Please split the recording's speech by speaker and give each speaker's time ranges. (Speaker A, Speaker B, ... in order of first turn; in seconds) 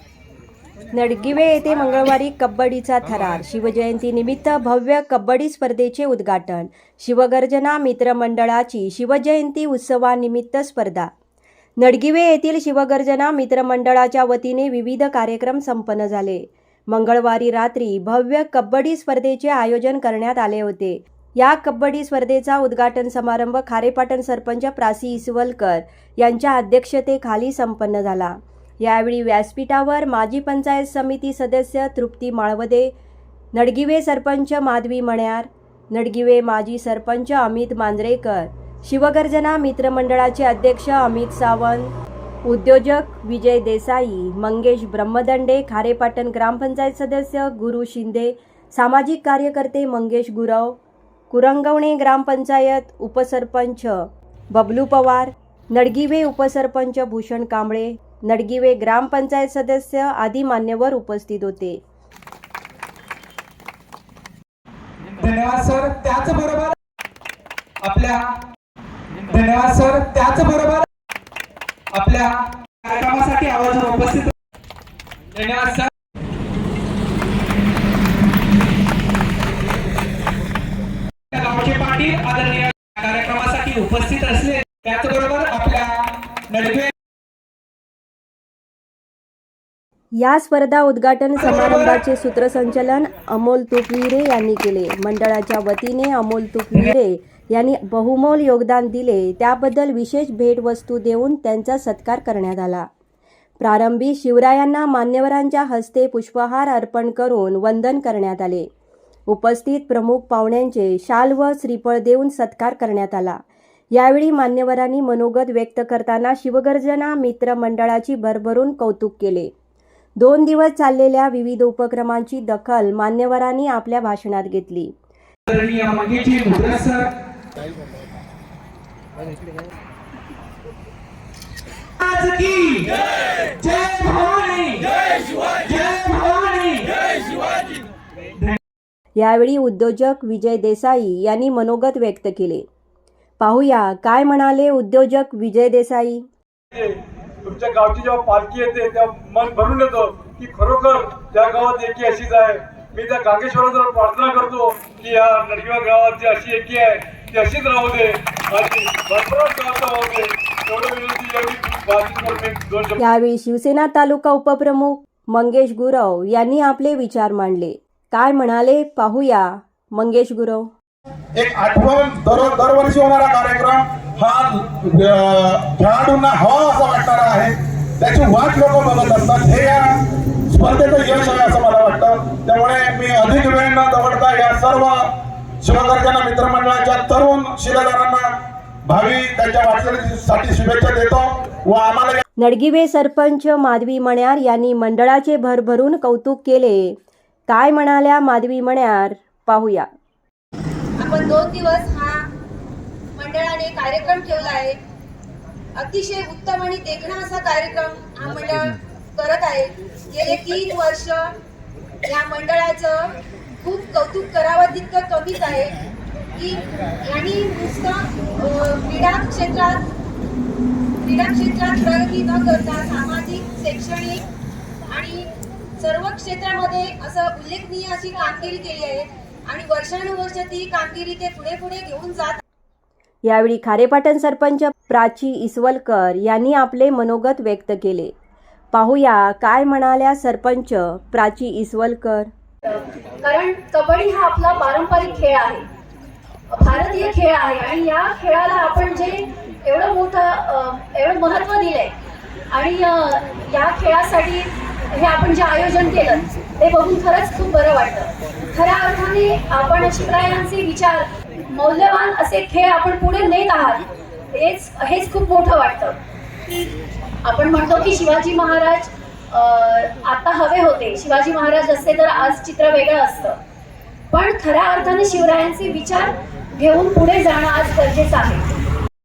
Speaker A: 0.9-11.1, 11.8-32.9, 33.5-41.9, 42.5-50.8, 51.3-54.0, 54.5-61.8, 90.2-102.8, 103.6-108.7, 109.3-113.4, 114.0-119.5, 120.2-124.9, 139.2-142.6, 143.4-146.2, 163.0-170.7, 192.4-196.9, 197.5-199.8, 233.3-238.1, 238.7-242.3
Speaker B: 65.2-66.8, 67.8-68.3, 69.3-70.9, 71.9-74.3, 75.3-75.9, 81.3-86.9, 91.4-92.0, 125.5-127.1, 132.0-136.9
Speaker C: 147.4-163.0
Speaker D: 171.3-179.9, 180.5-185.0, 185.6-188.2, 188.9-192.2
Speaker E: 201.0-202.3, 203.1-204.8, 205.7-211.3, 212.0-219.9, 221.0-224.2, 224.9-232.4
Speaker F: 242.7-245.6, 246.5-251.9, 252.5-263.8, 264.3-265.9, 267.2-273.3, 274.1-278.4